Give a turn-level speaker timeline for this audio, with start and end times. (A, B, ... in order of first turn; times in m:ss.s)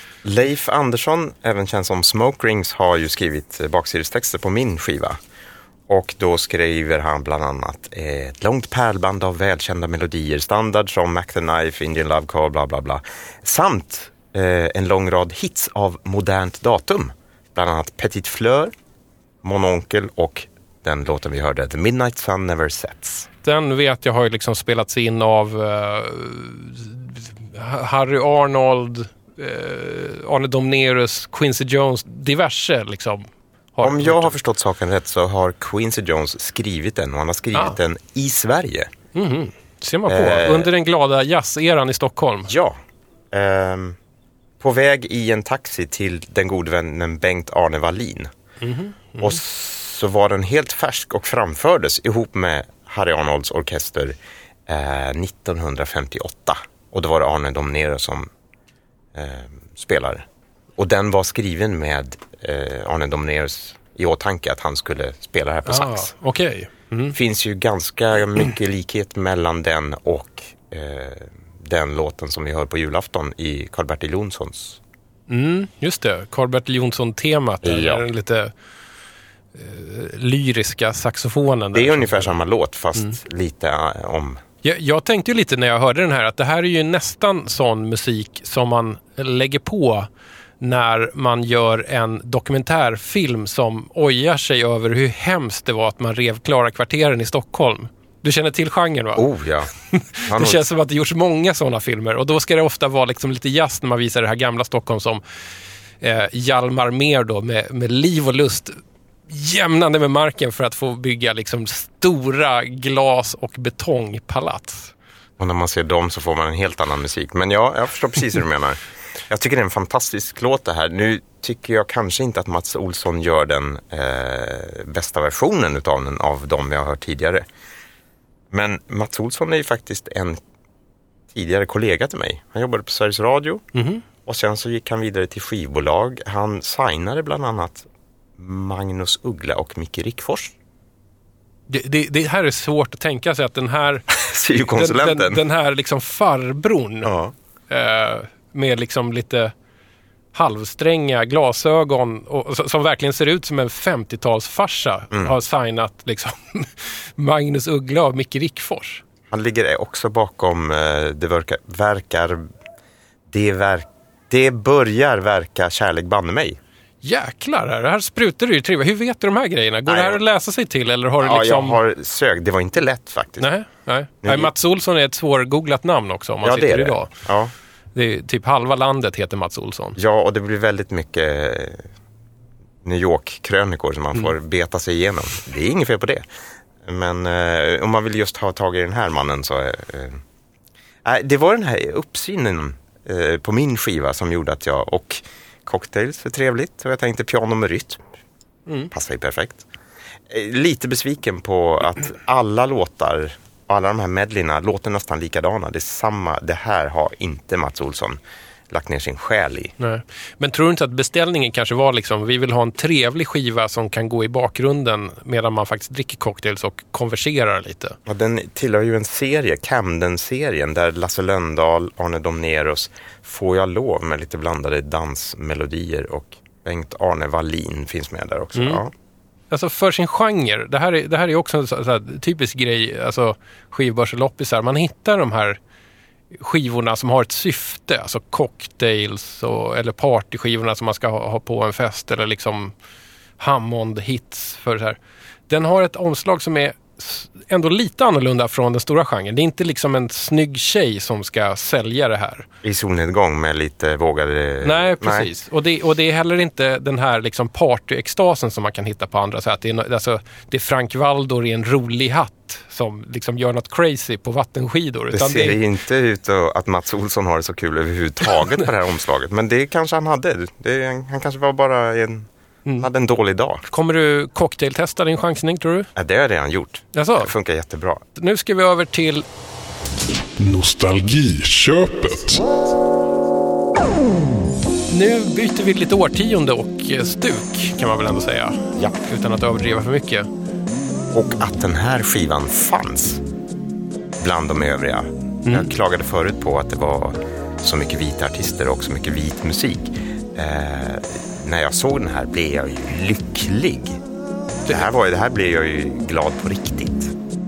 0:00.2-0:05.2 A
0:05.9-0:18.7 A
0:19.4-0:23.3 A
0:23.4-0:34.4 B
0:33.8-0:38.9 A
0:39.1-0:42.5 B
0:40.1-0:40.7 A
0:42.5-0:42.8 A
0:43.3-0:44.0 A
0:44.6-0:48.3 A
0:48.6-0:49.4 B
0:49.2-0:58.3 A
0:59.1-1:06.1 A
1:05.6-1:07.2 B
1:07.1-1:14.8 A
1:15.3-1:18.5 B
1:17.6-1:18.0 A
1:19.5-1:22.3 B
1:21.7-1:24.4 A
1:24.6-1:30.1 B
1:30.6-1:39.2 B
1:39.2-1:39.7 A
1:39.9-1:45.2 B
1:40.2-1:40.7 A
1:46.0-1:48.8 B
1:49.3-1:54.9 B
1:55.4-2:07.4 A
2:08.5-2:10.4 A
2:11.3-2:13.6 A
2:13.7-2:14.0 B
2:14.2-2:20.5 A
2:21.7-2:27.1 B
2:24.1-2:25.4 A
2:27.0-2:27.3 A
2:27.7-2:29.5 B
2:30.3-2:39.0 B
2:39.3-2:42.4 A
2:43.3-2:46.6 A
2:47.0-2:51.8 B
2:49.8-2:50.2 A
2:51.2-2:53.5 A
2:53.4-2:57.1 B
2:54.2-2:54.5 A
2:56.4-2:57.5 A
2:57.9-3:00.0 B
3:00.0-3:01.9 A
3:02.8-3:06.2 A
3:06.8-3:10.2 A
3:11.0-3:18.0 A
3:18.9-3:19.6 A
3:20.3-3:29.7 A
3:29.8-3:38.0 B
3:38.0-3:48.9 A
3:48.6-3:48.8 B
3:49.5-3:55.6 B
3:56.3-4:02.7 B
4:03.4-4:05.0 B
4:05.5-4:12.5 B
4:12.6-4:15.3 A
4:14.6-4:25.6 B
4:25.1-4:33.6 A
4:33.7-4:35.9 B
4:36.0-4:38.0 A
4:36.9-4:37.3 B
4:38.1-4:39.2 B
4:40.4-4:42.4 C
4:44.9-4:50.3 B
4:51.1-4:53.2 A
4:54.2-5:04.0 A
5:04.6-5:07.1 A